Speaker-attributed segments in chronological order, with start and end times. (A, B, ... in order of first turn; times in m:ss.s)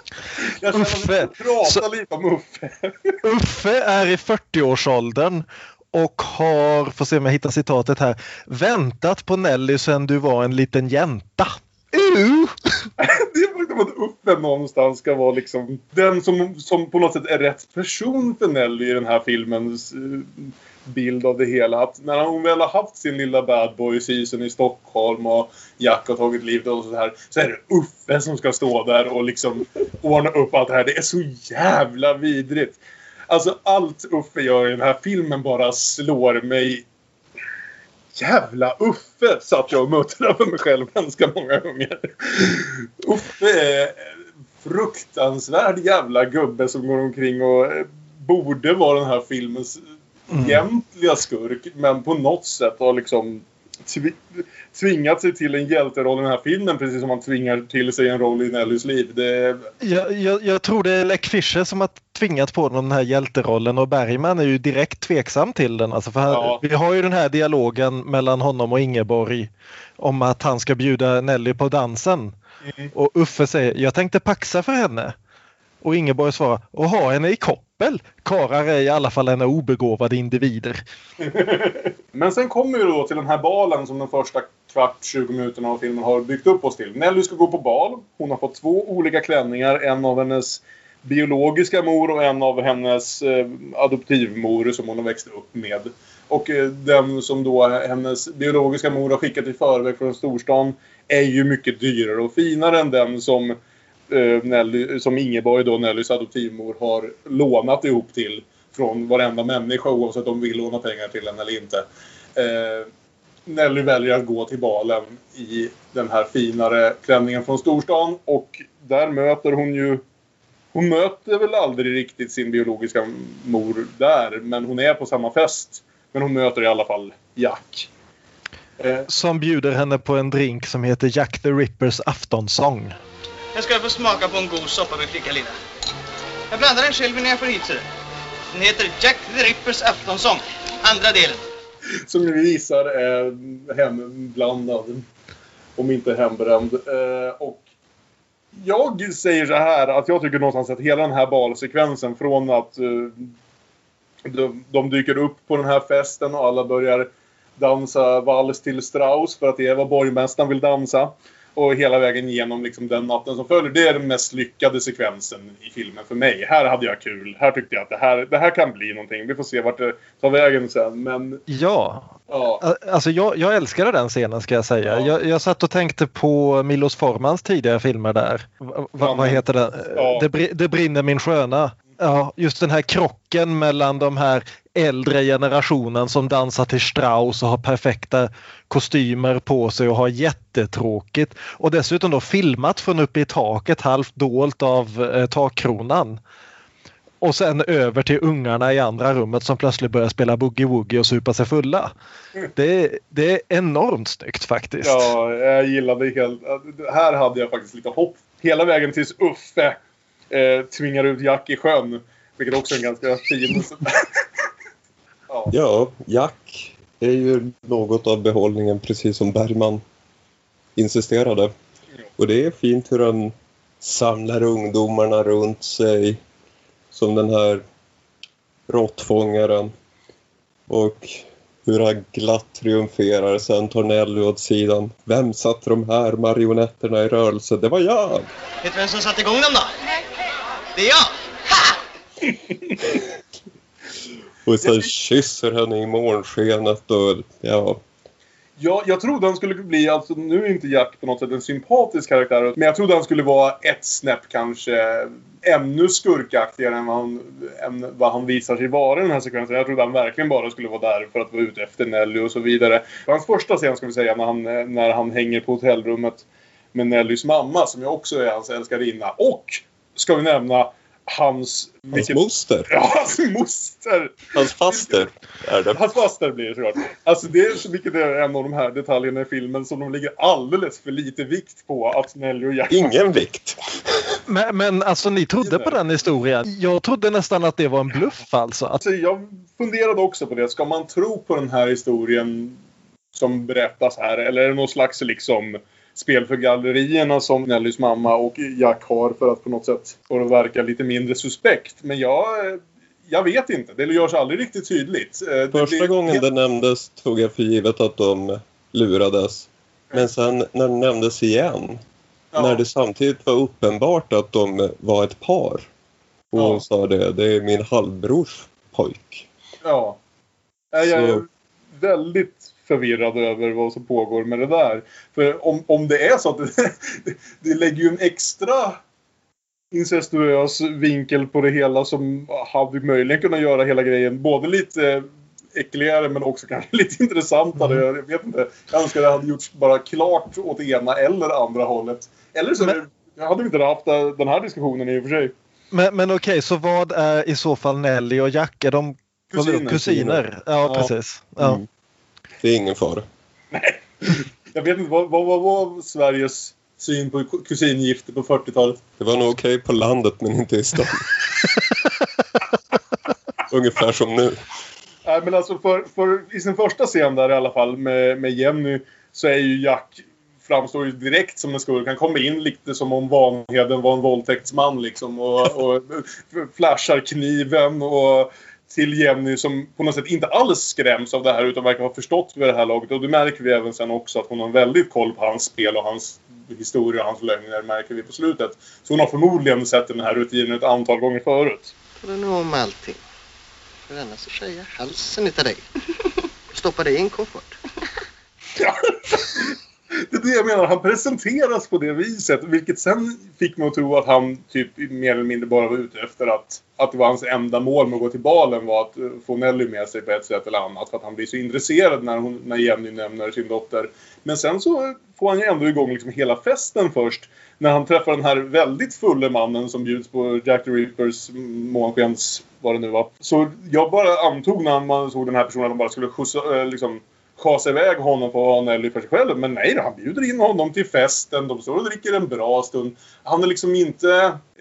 0:00.4-0:03.2 A
0:00.8-0:01.8 B
0:03.2-0:12.9 B
0:13.0-0:36.8 A
0:38.2-0:49.8 A
0:50.3-0:50.6 B
0:50.3-0:59.7 A
0:59.8-1:12.3 B
1:06.3-1:06.6 A
1:12.6-1:12.9 A
1:12.9-1:15.1 B
1:15.8-1:20.8 B
1:21.2-1:43.6 A
1:44.1-1:51.8 A
1:52.4-1:52.9 A
1:53.4-2:00.0 A
2:00.7-2:07.9 A
2:08.8-2:09.1 A
2:09.1-2:13.0 B
2:13.5-2:15.5 C
2:16.5-2:17.8 C
2:18.5-2:21.4 C
2:22.1-2:25.0 A
2:25.8-2:27.6 A
2:28.6-2:33.3 A
2:34.2-2:51.4 A
2:51.5-3:16.2 B
2:52.3-2:52.6 A
2:54.8-2:55.1 A
2:59.0-3:00.3 A
3:17.2-3:21.9 B
3:22.6-3:25.1 B
3:24.8-3:29.8 A
3:30.3-3:34.2 A
3:35.5-3:39.8 D
3:40.8-3:41.5 D
3:42.2-3:46.2 D
3:46.9-3:47.6 D
3:48.7-3:49.7 D
3:50.7-3:58.3 D
3:58.6-3:59.8 C
4:00.7-4:01.7 C
4:04.4-4:07.8 D
4:08.6-4:35.1 A
4:31.9-4:32.7 D
4:34.3-4:35.8 D
4:35.7-4:42.9 A
4:42.7-4:43.6 D
4:44.3-4:48.8 B
4:45.4-4:45.8 A
4:48.8-4:52.6 A
4:53.1-5:06.2 A
5:05.5-5:11.8 D
5:12.3-5:12.6 A
5:12.4-5:15.7 D
5:16.3-5:19.3 D
5:16.3-5:16.6 A
5:19.6-5:20.0 A
5:20.7-5:28.8 A
5:20.8-5:21.2 D
5:29.7-5:45.3 A
5:37.6-5:37.8 B
5:45.7-5:51.6 B
5:49.3-5:50.9 A
5:51.4-5:51.7 D
5:52.4-5:53.1 D
5:53.5-5:58.8 A
5:59.0-6:01.2 D
6:03.5-6:04.4 D
6:05.0-6:31.7 A
6:32.0-6:33.0 E
6:33.9-6:35.7 E
6:36.5-6:37.6 E
6:38.6-7:14.4 A